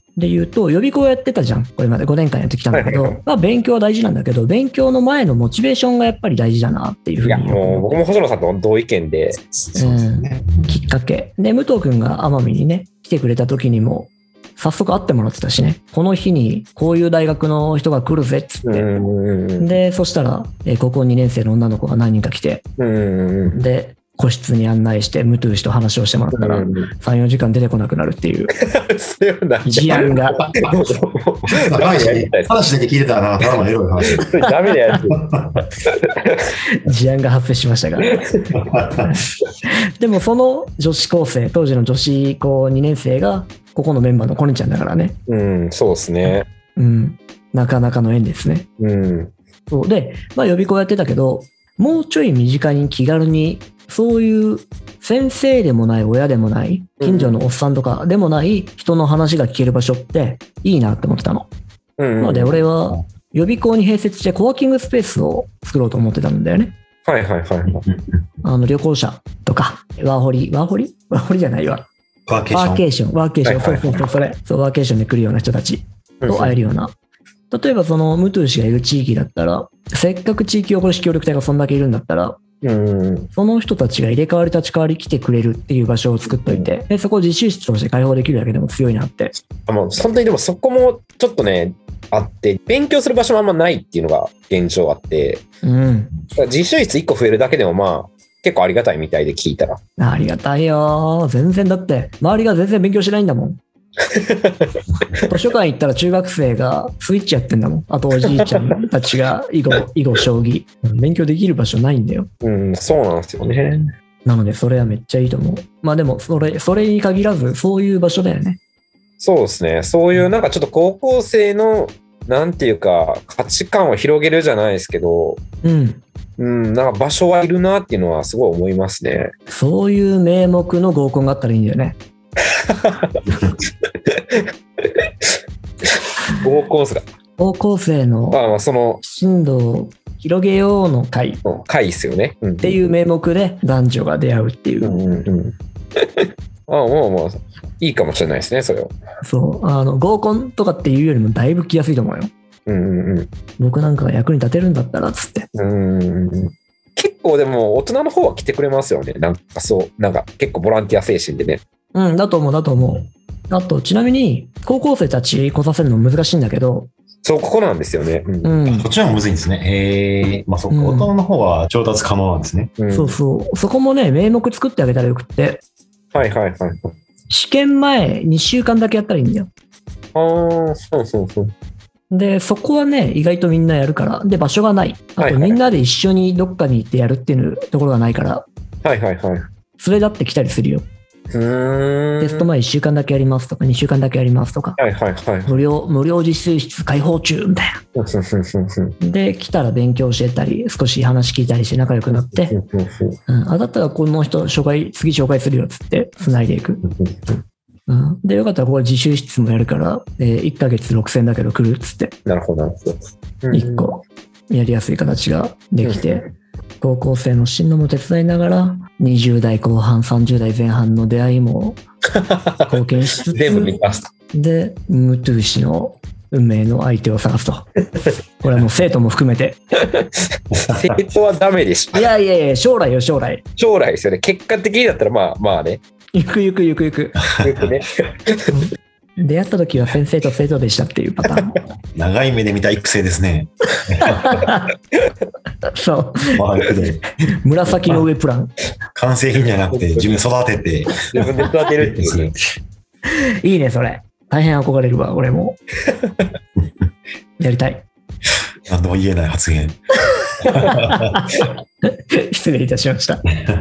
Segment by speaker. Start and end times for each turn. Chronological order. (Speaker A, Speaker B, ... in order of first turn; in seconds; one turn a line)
Speaker A: 0.2-8.0
Speaker B: 2.7-3.2
Speaker B: 7.2-9.4
Speaker C: 9.4-10.9
Speaker A: 9.8-18.9
Speaker B: 18.6-19.8
Speaker A: 19.6-22.6
Speaker B: 22.8-23.6
Speaker A: 23.5-28.5
Speaker B: 26.3-26.9
Speaker B: 28.6-32.5
Speaker A: 29.6-30.4
Speaker C: 31.6-34.3
Speaker B: 34.2-35.2
Speaker C: 35.3-35.6
Speaker B: 35.9-36.5
Speaker A: 36.8-38.2
Speaker B: 38.1-38.4
Speaker C: 38.6-39.1
Speaker A: 39.0-45.2
Speaker B: 45.3-46.5
Speaker A: 46.3-48.7
Speaker B: 48.8-49.3
Speaker A: 49.7-61.5
Speaker B: 57.0-57.4
Speaker B: 62.0-62.6
Speaker A: 62.2-66.8
Speaker B: 67.0-67.8
Speaker C: 67.8-68.2
Speaker A: 68.4-71.9
Speaker C: 72.3-72.9
Speaker A: 72.5-76.9
Speaker B: 73.4-74.0
Speaker B: 76.2-76.6
Speaker A: 77.5-82.4
Speaker B: 82.6-83.3
Speaker A: 83.3-89.3
Speaker B: 86.3-86.7
Speaker B: 89.7-95.5
Speaker A: 95.6-96.1
Speaker B: 96.3-99.8
Speaker A: 100.0-103.6
Speaker B: 104.1-104.7
Speaker A: 105.3-112.3
Speaker B: 108.3-108.8
Speaker B: 112.4-113.9
Speaker A: 114.2-118.6
Speaker B: 119.2-125.4
Speaker A: 125.6-126.0
Speaker B: 126.4-129.3
Speaker A: 129.5-132.0
Speaker B: 132.7-133.3
Speaker B: 134.1-135.1
Speaker B: 136.3-137.0
Speaker A: 137.4-138.4
Speaker B: 138.3-139.0
Speaker A: 139.0-141.4
Speaker B: 141.4-142.9
Speaker A: 142.6-145.0
Speaker B: 144.8-148.9
Speaker A: 149.2-152.3
Speaker B: 152.7-153.3
Speaker A: 153.6-155.5
Speaker B: 155.5-161.6
Speaker A: 161.9-166.9
Speaker B: 167.2-168.6
Speaker A: 168.4-168.9
Speaker C: 168.7-172.7
Speaker B: 170.2-170.4
Speaker A: 170.7-171.1
Speaker B: 172.8-173.2
Speaker A: 172.9-175.6
Speaker B: 176.1-176.9
Speaker A: 177.3-179.5
Speaker B: 180.2-181.5
Speaker A: 182.1-188.4
Speaker B: 185.2-185.6
Speaker B: 188.8-189.5
Speaker A: 189.8-190.9
Speaker B: 191.3-192.5
Speaker A: 192.2-194.8
Speaker B: 194.8-195.6
Speaker A: 195.5-197.8
Speaker B: 198.0-198.9
Speaker A: 199.0-202.5
Speaker B: 202.1-203.2
Speaker A: 203.3-206.8
Speaker B: 206.8-207.4
Speaker A: 207.9-212.1
Speaker B: 212.3-213.9
Speaker A: 213.5-216.3
Speaker B: 215.8-216.2
Speaker A: 216.8-221.8
Speaker B: 222.2-222.6
Speaker A: 222.7-223.8
Speaker B: 223.3-224.1
Speaker A: 224.3-227.7
Speaker A: 228.4-229.6
Speaker B: 230.7-232.1
Speaker A: 231.9-233.4
Speaker B: 233.6-235.8
Speaker A: 236.1-237.2
Speaker B: 237.4-238.5
Speaker A: 238.5-241.6
Speaker C: 241.9-244.4
Speaker A: 244.1-244.7
Speaker A: 245.7-246.4
Speaker C: 246.3-247.1
Speaker A: 247.4-248.6
Speaker C: 248.9-252.4
Speaker B: 249.7-250.2
Speaker B: 251.1-252.3
Speaker A: 253.1-255.6
Speaker A: 257.4-257.9
Speaker C: 258.7-259.8
Speaker C: 260.4-261.2
Speaker A: 260.4-263.2